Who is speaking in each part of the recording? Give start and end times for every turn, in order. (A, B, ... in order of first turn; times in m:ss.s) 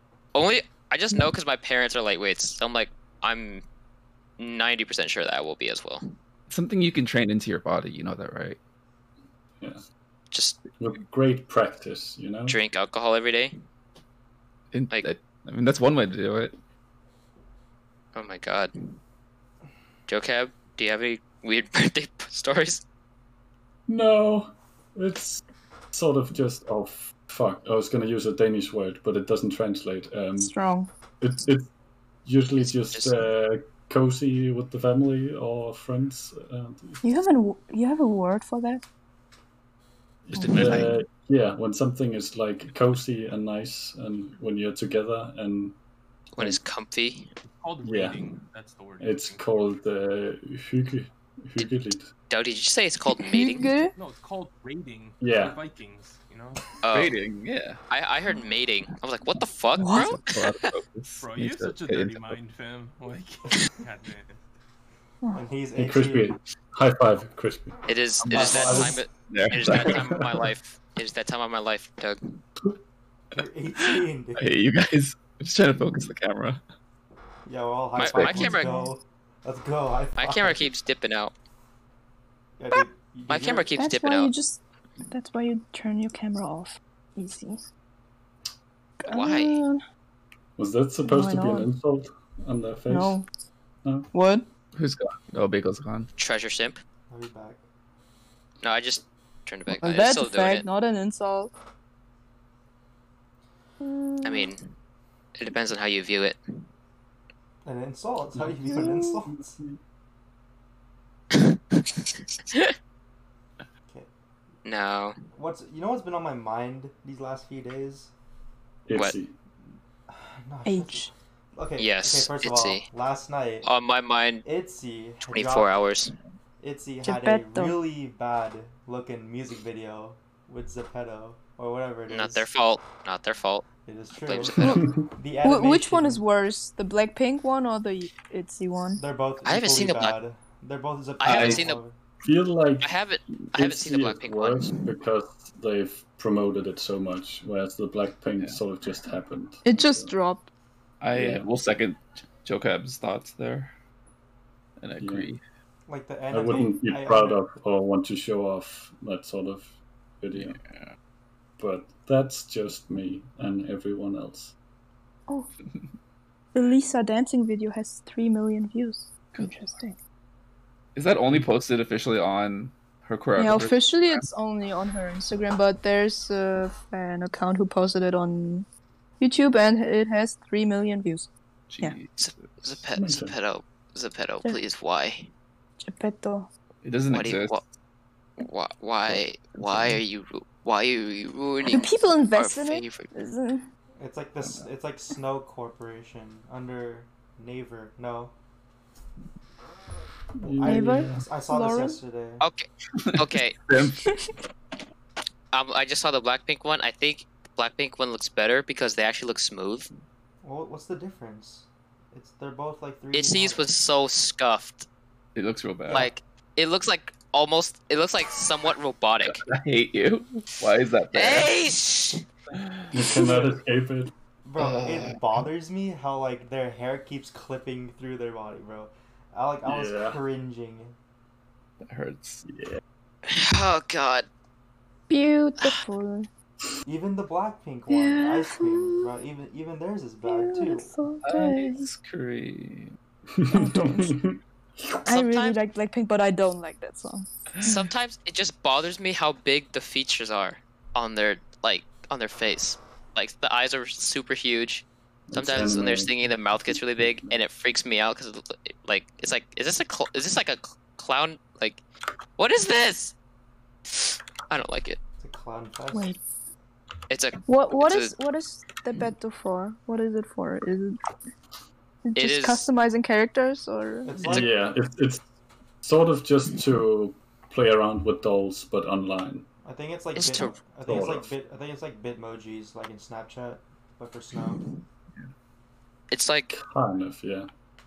0:00.3-0:03.6 A
0:04.4-0:06.0 A
0:06.5-0:08.6 B
0:10.3-0:10.6 A
0:10.8-0:12.6 C
0:12.5-0:13.6 A
0:14.7-0:16.6 B
0:18.1-0:19.0 A
0:20.1-0:22.8 A
0:23.9-0:30.6 C
0:30.4-0:30.9 D
0:31.2-0:31.7 C
0:32.2-0:37.0 C
0:32.6-0:33.3 A
0:37.0-0:38.8 D
0:40.3-0:45.8 C
0:40.3-0:40.9 D
0:40.4-0:40.9 B
0:46.3-0:47.3 A
0:47.4-0:49.5 E
0:47.8-0:48.2 C
0:49.0-0:52.1 C
0:52.3-0:53.7 A
0:53.2-0:53.9 D
0:54.0-0:56.6 E
0:55.2-0:55.6 C
0:56.8-0:57.2 A
0:56.9-0:57.8 B
0:57.9-1:00.7 A
0:59.8-1:00.2 D
0:59.9-1:02.4 B
1:01.2-1:04.4 E
1:05.3-1:06.4 F
1:05.7-1:07.8 C
1:07.9-1:12.2 A
1:08.2-1:10.2 B
1:08.3-1:09.0 C
1:09.7-1:10.2 C
1:13.3-1:14.4 F
1:14.4-1:16.6 B
1:17.4-1:20.7 F
1:18.0-1:18.8 A
1:18.1-1:18.5 B
1:18.5-1:18.9 D
1:20.2-1:21.3 A
1:22.6-1:23.7 F
1:23.3-1:24.3 A
1:23.8-1:27.6 D
1:29.0-1:29.8 D
1:29.1-1:29.6 A
1:30.6-1:33.2 C
1:31.0-1:31.7 D
1:32.9-1:33.3 D
1:33.8-1:34.1 C
1:34.1-1:34.4 D
1:34.8-1:36.1 B
1:36.2-1:36.8 A
1:37.1-1:37.6 F
1:38.6-1:40.6 A
1:39.7-1:41.5 D
1:43.8-1:44.5 D
1:44.2-1:44.7 A
1:45.4-1:46.4 A
1:47.6-1:49.6 F
1:48.7-1:49.2 D
1:49.4-1:49.8 C
1:54.6-1:55.2 A
1:55.3-1:58.1 F
1:58.9-1:59.4 C
2:00.1-2:03.7 F
2:00.6-2:01.1 D
2:01.8-2:02.9 A
2:03.6-2:04.4 A
2:04.4-2:05.7 F
2:05.2-2:06.1 A
2:06.6-2:12.4 F
2:07.0-2:07.8 D
2:12.1-2:14.8 A
2:13.9-2:16.2 F
2:14.6-2:15.0 C
2:15.4-2:19.0 D
2:19.0-2:21.9 F
2:19.4-2:20.2 A
2:21.2-2:21.8 A
2:21.3-2:21.6 B
2:22.2-2:22.9 C
2:22.8-2:24.8 A
2:23.5-2:30.1 C
2:29.6-2:30.5 D
2:31.0-2:33.7 B
2:31.1-2:31.5 C
2:34.8-2:35.4 B
2:35.0-2:35.3 C
2:35.9-2:37.4 F
2:36.3-2:40.6 C
2:40.4-2:40.9 B
2:41.6-2:44.6 C
2:46.6-2:50.0 D
2:49.3-2:49.7 B
2:50.9-2:54.3 B
2:53.4-2:58.6 D
2:59.2-3:01.3 D
3:01.7-3:02.8 B
3:02.2-3:05.3 A
3:03.0-3:03.4 C
3:05.8-3:06.5 D
3:06.8-3:07.6 B
3:07.1-3:07.6 A
3:08.4-3:13.1 A
3:09.1-3:10.0 B
3:11.6-3:13.6 D
3:14.0-3:18.3 F
3:20.4-3:21.2 C
3:20.4-3:22.4 F
3:20.6-3:22.0 D
3:22.4-3:23.6 A
3:23.0-3:24.1 B
3:24.0-3:24.3 D
3:25.5-3:29.9 A
3:30.4-3:33.7 F
3:33.1-3:34.9 A
3:35.4-3:36.1 B
3:35.9-3:39.4 A
3:39.3-3:41.5 B
3:41.1-3:42.2 A
3:42.5-3:42.9 B
3:42.9-3:44.1 C
3:43.1-3:43.6 F
3:44.4-3:51.0 F
3:44.6-3:45.4 B
3:49.6-3:50.2 C
3:51.8-3:52.4 B
3:52.4-3:52.8 C
3:53.3-3:54.3 A
3:55.1-3:56.3 D
3:56.8-4:00.9 F
3:57.9-3:59.1 D
4:00.2-4:01.8 D
4:01.2-4:02.9 B
4:03.3-4:05.0 C
4:03.5-4:04.2 D
4:05.1-4:07.8 D
4:05.1-4:05.6 A
4:07.6-4:21.8 A
4:15.3-4:17.4 C
4:22.4-4:23.1 A
4:23.9-4:25.0 A
4:25.2-4:26.1 F
4:25.9-4:26.2 D
4:27.1-4:28.1 A
4:27.5-4:31.0 D
4:32.0-4:34.2 D
4:32.2-4:32.7 A
4:34.0-4:34.6 F
4:34.3-4:35.2 C
4:35.8-4:39.5 C
4:39.6-4:44.6 F
4:40.2-4:40.6 A
4:40.9-4:41.3 C
4:46.1-4:46.6 A
4:46.5-4:47.5 C